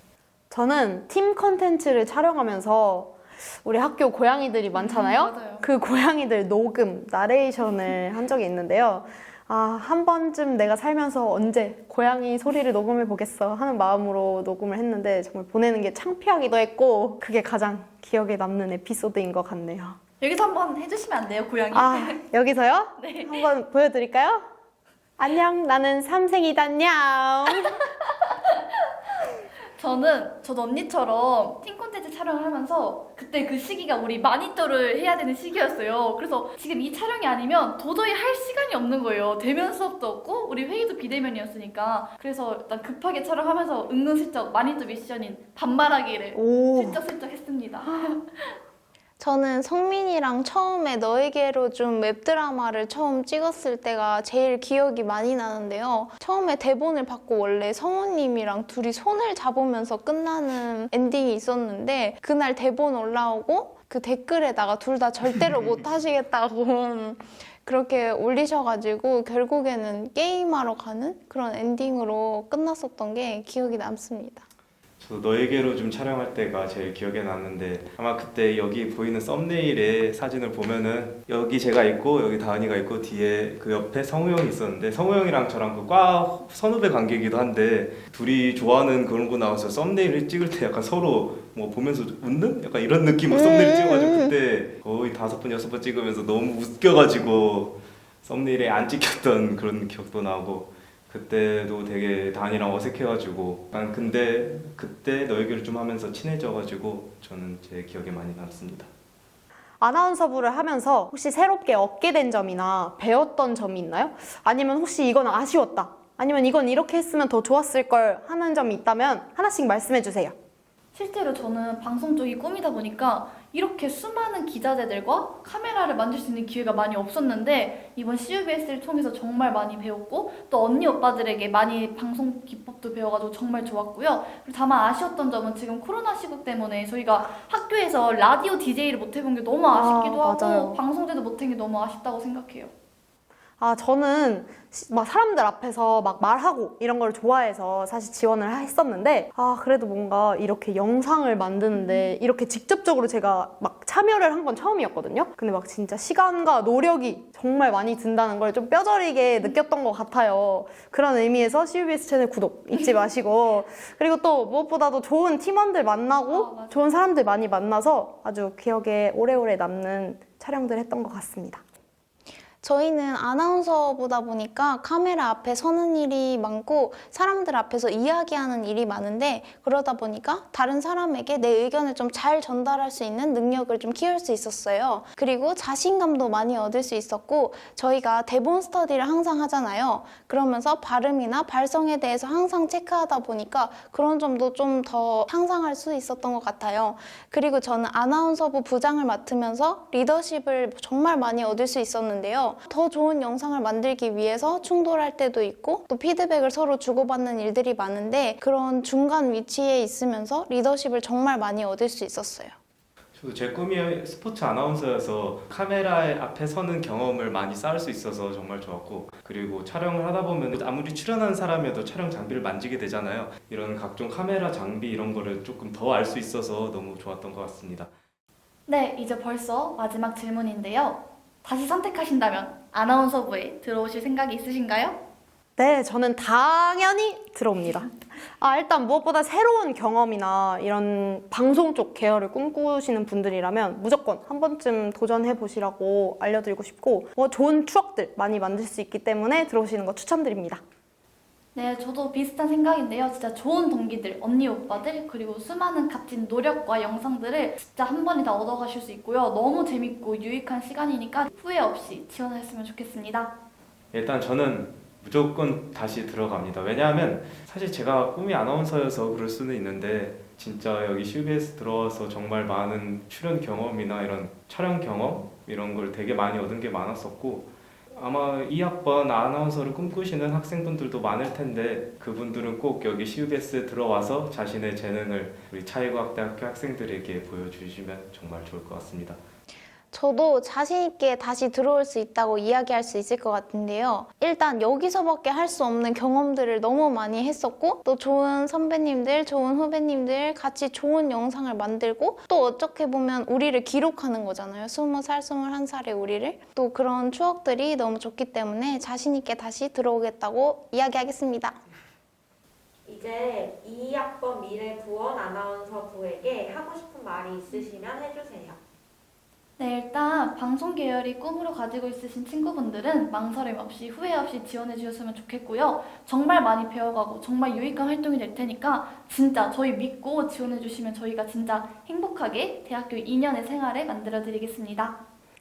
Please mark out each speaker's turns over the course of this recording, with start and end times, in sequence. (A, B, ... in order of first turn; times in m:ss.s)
0:00.5-0:20.0 A
0:04.7-0:05.6 B
0:20.2-0:22.2 B
0:21.7-0:24.4 A
0:23.0-0:23.4 B
0:25.2-0:27.8 A
0:27.6-0:28.8 B
0:29.8-0:48.6 B
0:46.3-0:47.0 A
0:49.2-1:14.4 C
1:15.0-1:48.9 D
1:33.3-1:34.3 C
1:49.8-2:00.3 A
2:00.9-2:22.7 B
2:19.7-2:20.8 A
2:23.6-2:51.6 A
2:31.7-2:32.1 B
2:46.1-2:46.8 B
2:52.6-3:32.5 C
3:33.1-3:47.9 D
3:48.7-3:55.0 B
3:55.6-4:10.6 A
4:11.5-4:23.3 B
4:23.9-4:49.2 D
4:49.9-5:11.6 C
5:12.9-5:18.6 E
5:19.6-5:35.0 B